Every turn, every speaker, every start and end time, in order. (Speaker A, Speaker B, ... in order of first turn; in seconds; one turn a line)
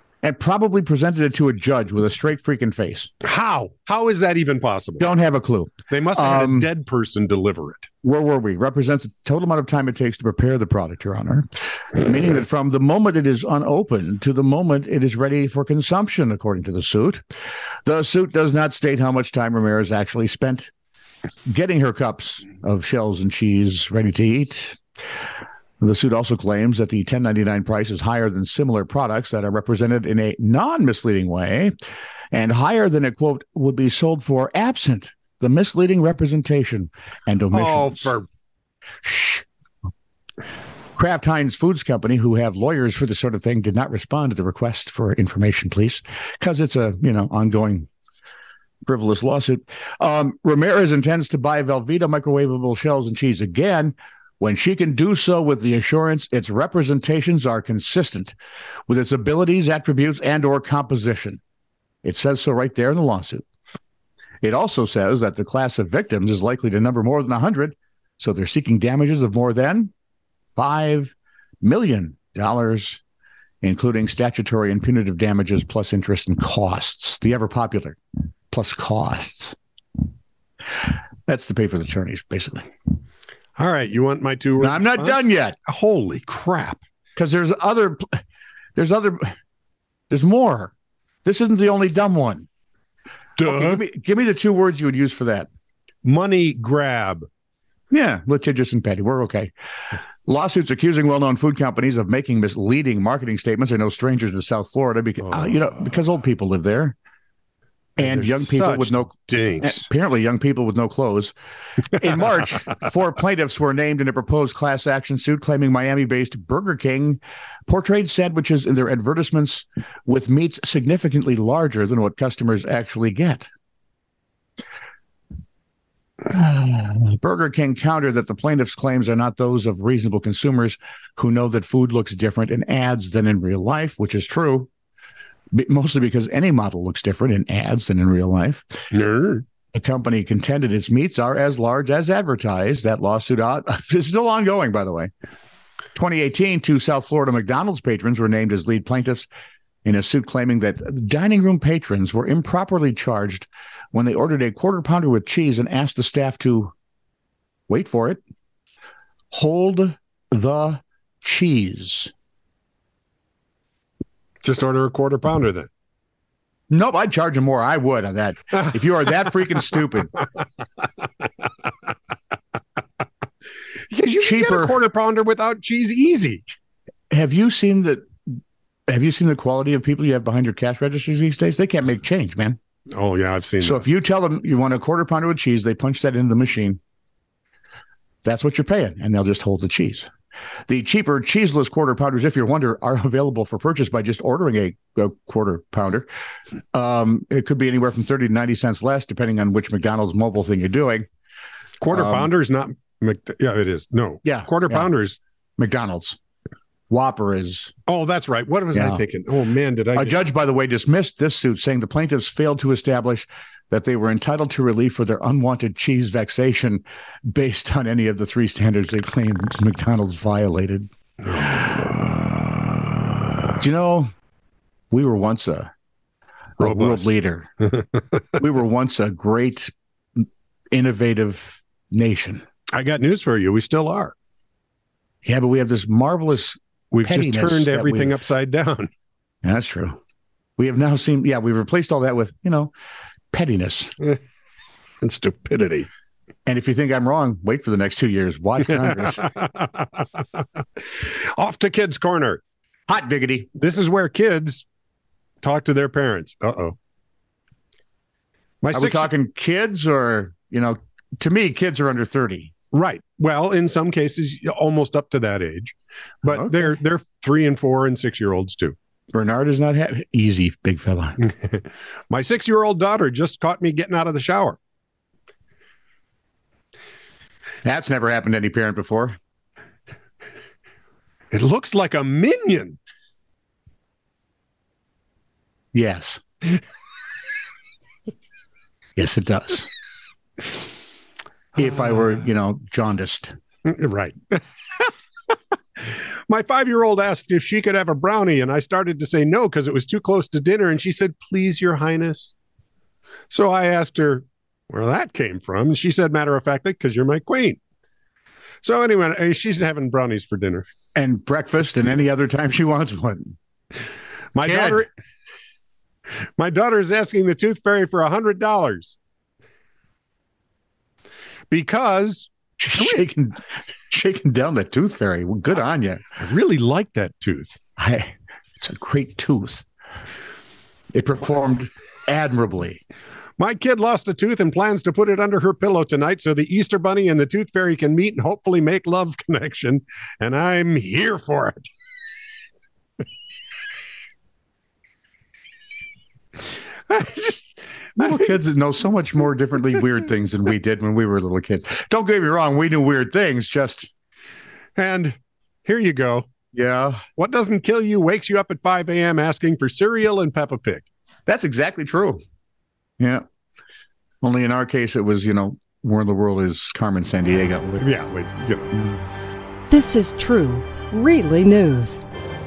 Speaker A: 0.2-3.1
Speaker B: 3.2-5.1
Speaker A: 5.0-6.7
Speaker B: 5.9-7.9
Speaker A: 8.0-17.2
Speaker A: 17.9-20.7
Speaker A: 21.5-24.8
Speaker A: 25.8-31.8
Speaker A: 32.3-38.1
Speaker B: 37.5-38.3
Speaker A: 39.0-39.5
Speaker A: 41.0-47.9
Speaker A: 48.9-58.4
Speaker A: 58.9-61.4
Speaker A: 62.0-63.4
Speaker A: 64.4-69.9
Speaker A: 70.6-73.0
Speaker A: 73.6-78.0
Speaker A: 78.5-79.6
Speaker A: 80.8-82.7
Speaker B: 83.6-86.8
Speaker A: 84.6-85.6
Speaker A: 87.2-88.2
Speaker A: 88.8-89.3
Speaker A: 90.1-90.7
Speaker A: 91.2-92.5
Speaker B: 93.4-93.8
Speaker A: 93.4-95.5
Speaker B: 96.0-97.3
Speaker A: 97.9-99.5
Speaker A: 100.3-107.0
Speaker A: 108.0-111.3
Speaker B: 108.0-109.9
Speaker A: 111.9-123.5
Speaker A: 126.3-134.7
Speaker A: 135.5-138.8
Speaker B: 138.9-139.4
Speaker A: 139.7-145.1
Speaker A: 145.9-149.3
Speaker A: 149.8-156.7
Speaker A: 157.7-158.2
Speaker A: 159.3-162.1
Speaker B: 164.4-165.7
Speaker A: 166.7-170.1
Speaker B: 173.9-176.4
Speaker A: 174.2-174.8
Speaker A: 177.1-178.4
Speaker A: 178.9-182.6
Speaker B: 182.9-183.8
Speaker A: 183.6-186.8
Speaker A: 188.2-190.1
Speaker A: 190.7-196.1
Speaker A: 196.7-201.1
Speaker B: 201.8-205.2
Speaker A: 201.9-202.3
Speaker A: 204.2-204.9
Speaker A: 205.6-206.2
Speaker A: 206.9-207.7
Speaker B: 207.9-210.2
Speaker A: 208.7-209.0
Speaker A: 209.9-220.9
Speaker B: 221.2-223.5
Speaker A: 221.4-221.7
Speaker A: 223.6-224.1
Speaker A: 224.9-225.7
Speaker A: 226.6-227.5
Speaker B: 226.6-227.1
Speaker A: 228.4-232.4
Speaker B: 232.7-234.2
Speaker A: 235.2-238.2
Speaker B: 236.9-238.9
Speaker A: 239.4-240.0
Speaker A: 240.6-242.7
Speaker A: 243.3-243.9
Speaker B: 245.0-245.9
Speaker A: 246.5-249.3
Speaker B: 249.1-250.2
Speaker B: 251.0-252.4
Speaker A: 252.9-253.5
Speaker B: 253.6-254.7
Speaker B: 255.4-256.8
Speaker B: 258.6-259.1
Speaker A: 258.7-262.5
Speaker B: 262.7-268.8
Speaker A: 266.2-266.7
Speaker A: 269.1-271.2
Speaker B: 271.3-274.6
Speaker A: 277.6-279.2
Speaker B: 281.3-282.8
Speaker A: 285.7-286.2
Speaker A: 289.0-289.7
Speaker A: 291.6-293.3
Speaker B: 293.7-294.9
Speaker B: 295.8-302.4
Speaker B: 303.3-307.6
Speaker B: 308.6-310.7
Speaker A: 310.9-313.4
Speaker B: 314.3-314.9
Speaker A: 314.4-314.9
Speaker B: 316.4-319.0
Speaker B: 321.5-322.3
Speaker A: 322.6-326.0
Speaker B: 326.2-327.6
Speaker A: 327.8-329.6
Speaker A: 330.9-332.8
Speaker B: 333.4-341.7
Speaker B: 346.9-348.1
Speaker A: 348.0-353.9
Speaker B: 354.8-356.3
Speaker A: 356.5-357.0
Speaker B: 357.2-360.9
Speaker A: 361.3-362.2
Speaker A: 363.0-363.2
Speaker A: 364.2-367.9
Speaker B: 367.8-368.8
Speaker C: 369.7-372.0